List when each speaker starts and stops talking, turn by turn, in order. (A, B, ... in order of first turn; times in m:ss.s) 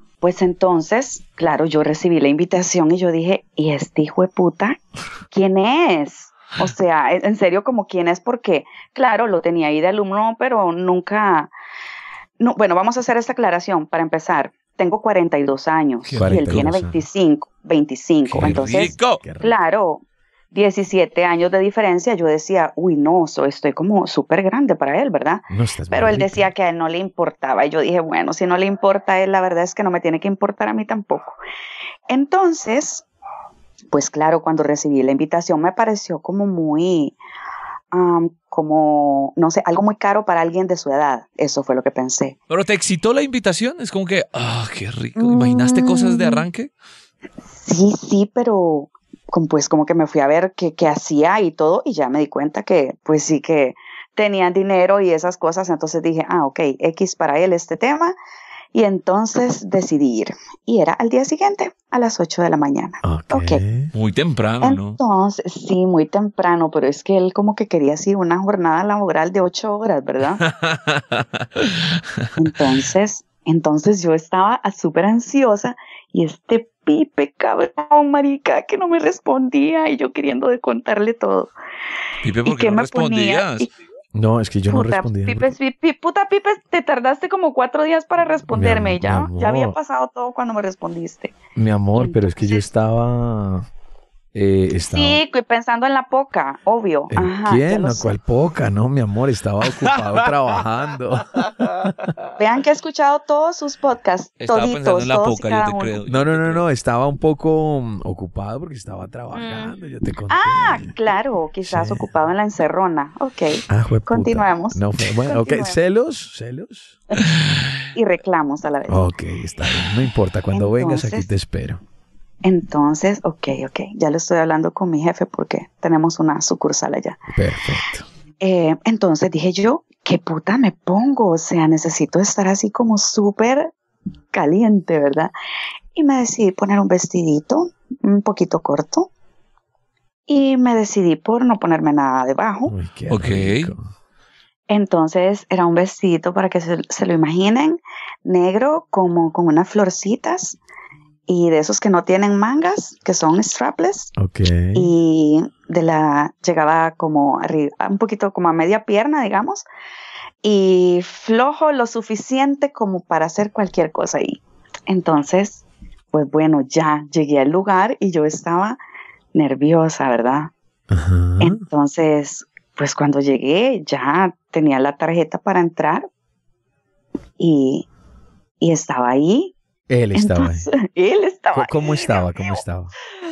0:00.2-0:04.8 A
0:05.3-0:11.5 A
0:12.4-0:31.4 A
0:16.0-0:16.7 B
0:16.1-0:17.0 C
0:18.3-0:19.2 B
0:18.3-0:19.6 C
0:25.5-0:26.5 C
0:32.1-0:33.0 A
0:33.9-0:37.2 A
0:37.9-0:42.4 A
0:42.5-0:46.7 B
0:45.2-0:46.5 A
0:47.5-0:58.2 A
0:58.7-1:03.6 A
1:03.0-1:03.9 C
1:03.9-1:05.0 B
1:04.6-1:10.4 A
1:10.4-1:12.3 B
1:12.4-1:21.5 A
1:22.2-1:23.7 B
1:22.4-1:23.7 A
1:24.1-1:25.6 C
1:24.7-1:31.4 A
1:28.5-1:29.8 C
1:31.6-1:33.7 C
1:32.0-1:32.6 A
1:34.3-1:35.2 C
1:34.9-1:38.1 A
1:37.1-1:42.0 C
1:39.8-1:40.6 B
1:41.4-1:42.2 B
1:42.4-1:46.0 A
1:44.4-1:46.6 B
1:46.1-1:50.9 C
1:49.3-1:49.7 A
1:50.3-1:55.8 A
1:51.7-1:52.1 C
1:53.7-1:57.0 C
1:57.9-1:59.1 A
1:58.9-2:01.8 C
2:00.5-2:01.3 A
2:02.4-2:07.2 A
2:07.3-2:08.1 C
2:08.4-2:13.7 A
2:14.3-2:15.3 A
2:16.0-2:19.1 A
2:20.3-2:22.7 A
2:22.7-2:23.8 C
2:23.1-2:23.7 B
2:24.7-2:30.6 A
2:31.3-2:34.1 A
2:34.2-2:34.9 C
2:34.7-2:39.7 A
2:40.4-2:48.8 A
2:49.3-2:50.5 A
2:50.9-2:51.6 C
2:51.4-2:56.1 A
2:57.4-2:57.9 A
2:58.6-2:59.5 A
2:59.9-3:00.7 C
3:00.2-3:02.6 A
3:01.5-3:02.9 C